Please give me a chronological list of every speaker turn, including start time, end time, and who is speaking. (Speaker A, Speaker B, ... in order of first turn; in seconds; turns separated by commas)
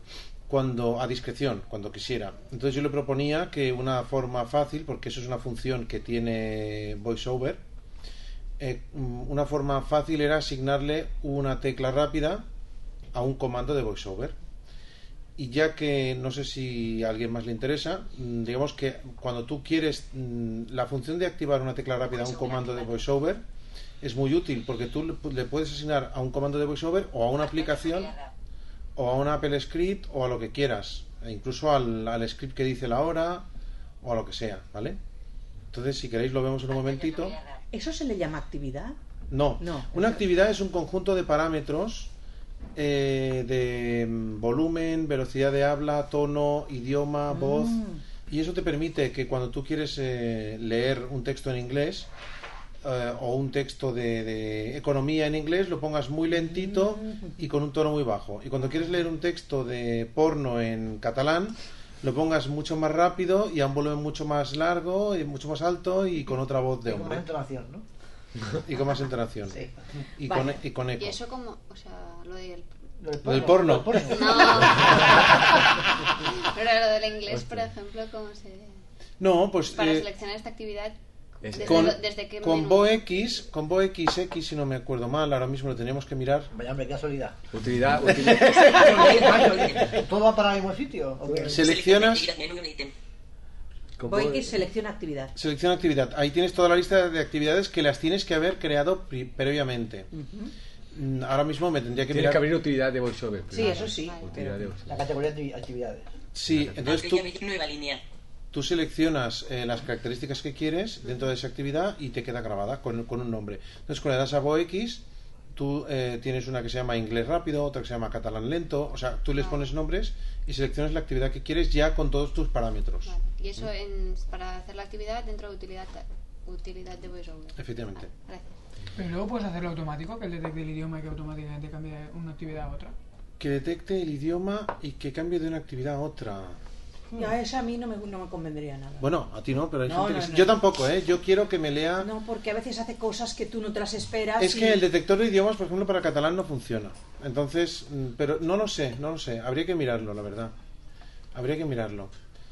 Speaker A: 0.5-7.6, Speaker A: 8.6-12.4, Speaker A: 13.1-14.3, Speaker A: 15.4-23.4, Speaker A: 24.0-28.1, Speaker A: 28.9-33.5, Speaker A: 34.0-35.0, Speaker A: 35.7-37.4, Speaker B: 37.7-39.0, Speaker A: 39.3-42.1, Speaker B: 39.6-40.2, Speaker A: 42.8-52.1, Speaker B: 47.3-48.0, Speaker A: 52.8-67.2, Speaker B: 56.3-57.3, Speaker C: 66.8-67.8, Speaker A: 68.6-69.7, Speaker A: 70.2-71.2, Speaker B: 70.2-70.6, Speaker D: 71.0-72.7, Speaker C: 73.0-75.2, Speaker A: 73.2-74.6, Speaker D: 74.0-75.7, Speaker D: 76.4-78.8, Speaker E: 77.3-77.6, Speaker A: 79.2-80.1, Speaker D: 79.7-80.9, Speaker E: 81.4-81.9, Speaker D: 81.5-83.0, Speaker A: 81.6-86.5, Speaker C: 86.5-91.7, Speaker E: 87.5-89.5, Speaker A: 88.5-88.9, Speaker F: 89.1-89.8, Speaker A: 91.5-92.3, Speaker F: 91.6-92.9, Speaker E: 94.0-94.5, Speaker B: 94.1-95.3, Speaker A: 95.3-100.1, Speaker B: 100.1-100.5, Speaker A: 100.9-102.5, Speaker E: 102.1-105.0, Speaker B: 103.5-104.6, Speaker D: 103.5-104.5, Speaker C: 104.8-106.1, Speaker A: 106.3-107.3, Speaker E: 106.5-106.8, Speaker F: 106.8-108.0, Speaker A: 108.5-115.0, Speaker A: 115.5-123.1, Speaker D: 119.3-119.7, Speaker D: 123.0-128.5, Speaker A: 127.6-128.1, Speaker G: 128.9-132.9, Speaker A: 133.4-136.6, Speaker B: 137.1-139.1, Speaker A: 139.0-142.1, Speaker B: 139.8-140.5, Speaker B: 142.0-144.8, Speaker A: 144.4-150.5, Speaker A: 151.3-152.1